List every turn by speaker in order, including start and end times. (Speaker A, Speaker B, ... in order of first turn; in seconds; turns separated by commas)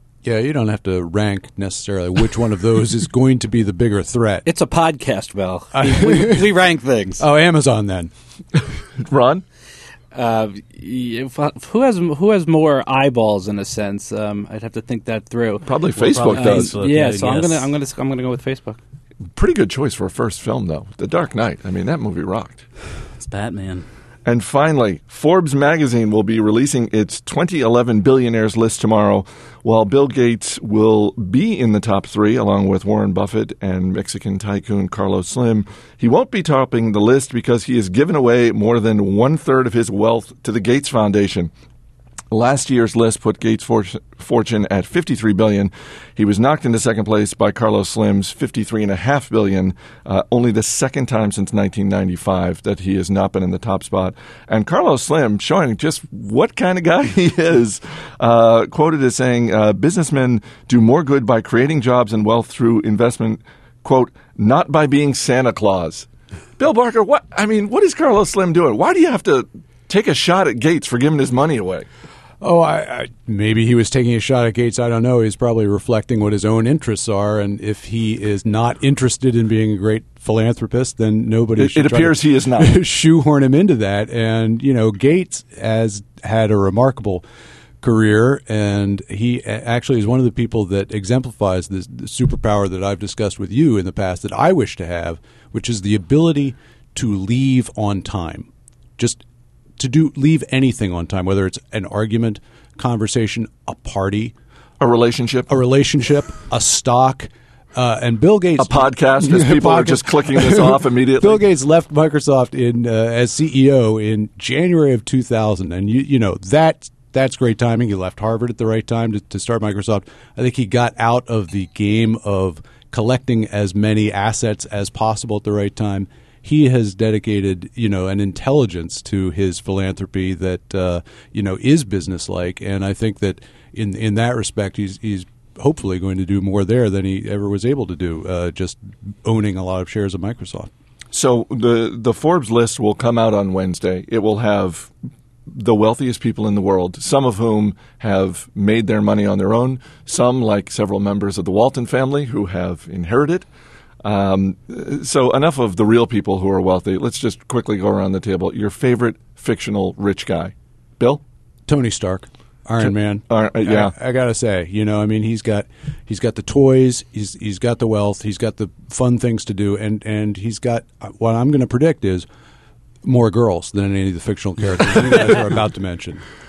Speaker A: 0.2-4.5, Speaker B: 4.4-7.2, Speaker A: 5.7-6.5, Speaker A: 7.2-8.1, Speaker C: 9.0-9.4, Speaker B: 10.1-15.7, Speaker C: 15.6-16.7, Speaker D: 15.9-17.7, Speaker B: 16.3-18.8, Speaker C: 19.3-22.6, Speaker D: 23.2-23.8, Speaker C: 24.2-41.5, Speaker C: 42.3-71.8, Speaker A: 72.4-87.2, Speaker C: 81.6-82.7, Speaker A: 87.8-99.2, Speaker A: 99.8-104.3, Speaker C: 104.8-105.5, Speaker A: 105.5-140.7, Speaker C: 108.6-111.4, Speaker C: 141.1-144.9, Speaker C: 145.5-153.5, Speaker C: 154.0-161.2, Speaker A: 161.7-172.2, Speaker C: 162.8-163.9, Speaker A: 173.0-176.2